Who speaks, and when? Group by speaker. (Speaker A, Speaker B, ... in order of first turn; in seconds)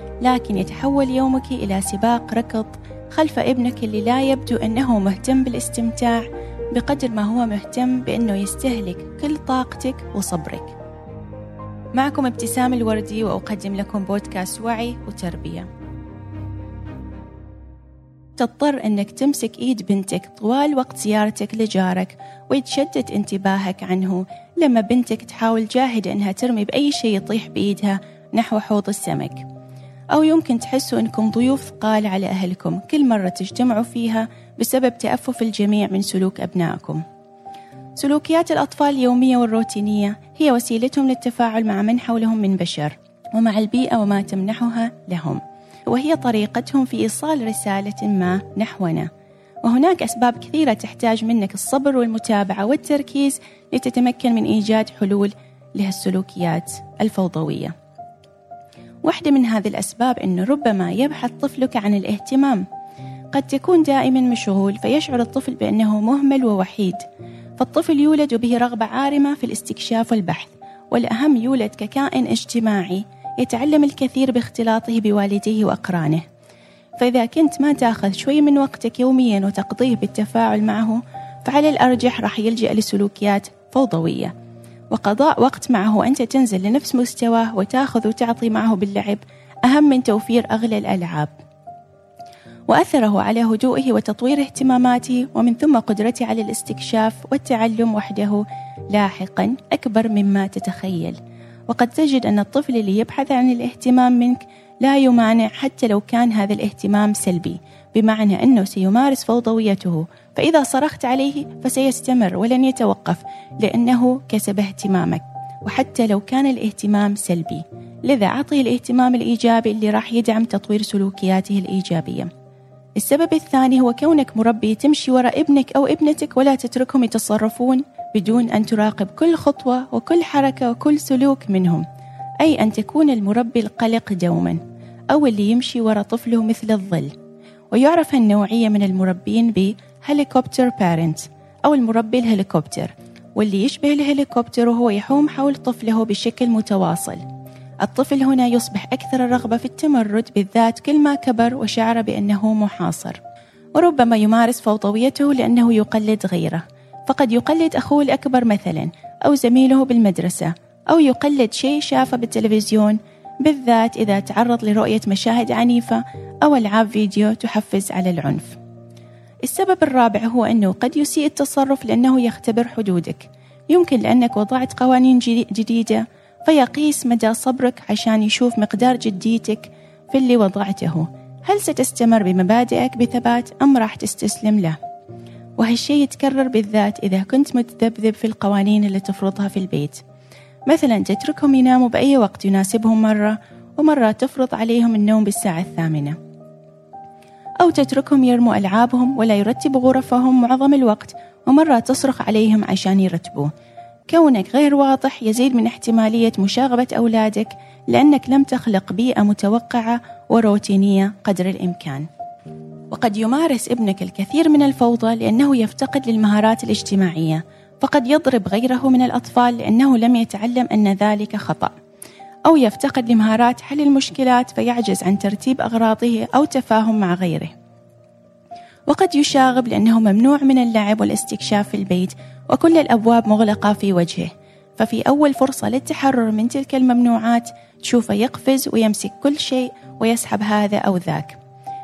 Speaker A: 0.2-10.8, 11.9-15.7, 18.4-29.4, 30.1-37.0, 38.0-49.1, 49.6-57.7, 59.0-62.6, 63.3-67.0, 67.6-76.2, 77.0-84.3, 84.9-91.3, 92.7-122.3, 123.0-131.8, 132.4-134.6, 135.1-137.1, 137.7-147.2, 147.8-153.2, 153.8-168.6, 169.4-184.8, 185.6-190.0, 190.7-196.2, 197.6-203.5, 204.1-212.1, 212.9-221.7, 222.4-227.5, 228.9-241.4